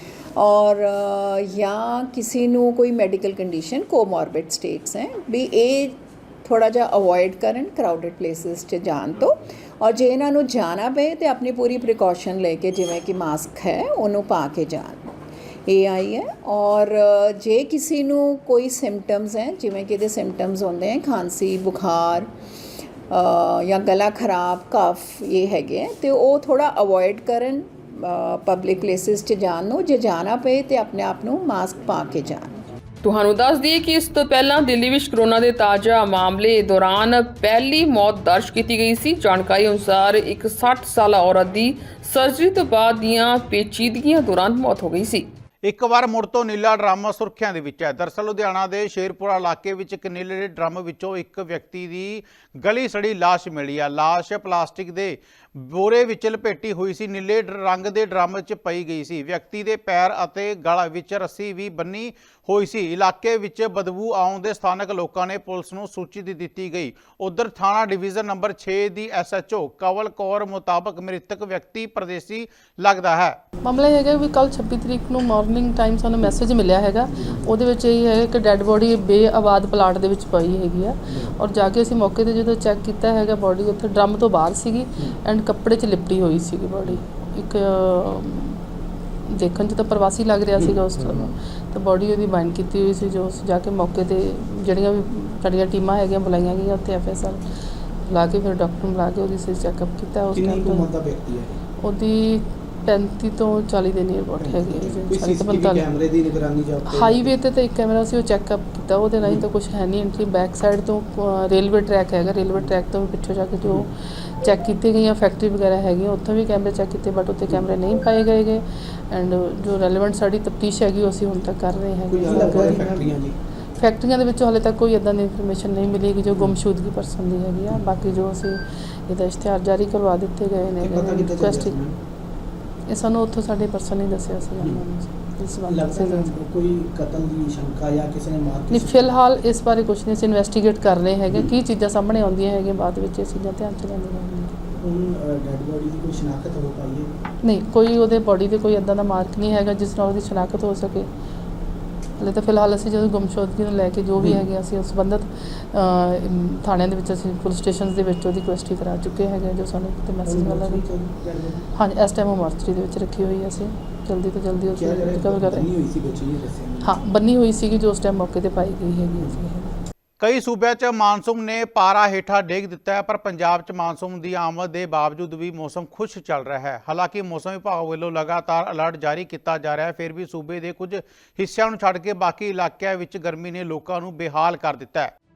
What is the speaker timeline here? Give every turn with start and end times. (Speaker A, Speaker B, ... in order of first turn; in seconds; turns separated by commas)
Speaker A: 0.4-15.1, Speaker A: 15.7-22.3, Speaker A: 23.1-32.6, Speaker B: 33.0-45.3, Speaker C: 45.6-73.4, Speaker D: 73.7-88.6, Speaker E: 77.2-77.5, Speaker D: 89.3-97.4, Speaker E: 90.6-91.3, Speaker D: 98.0-101.0, Speaker E: 100.3-101.5, Speaker D: 101.8-106.0, Speaker E: 104.4-107.3, Speaker D: 106.9-123.2, Speaker E: 122.1-123.4, Speaker D: 123.8-131.8, Speaker E: 130.9-131.9, Speaker D: 132.9-136.3, Speaker E: 135.7-139.2, Speaker D: 138.7-144.6, Speaker E: 144.8-147.1, Speaker D: 147.4-151.1, Speaker D: 152.2-160.9, Speaker E: 160.3-161.7, Speaker D: 161.7-165.7, Speaker E: 164.7-166.9, Speaker D: 166.8-169.7, Speaker C: 170.2-185.1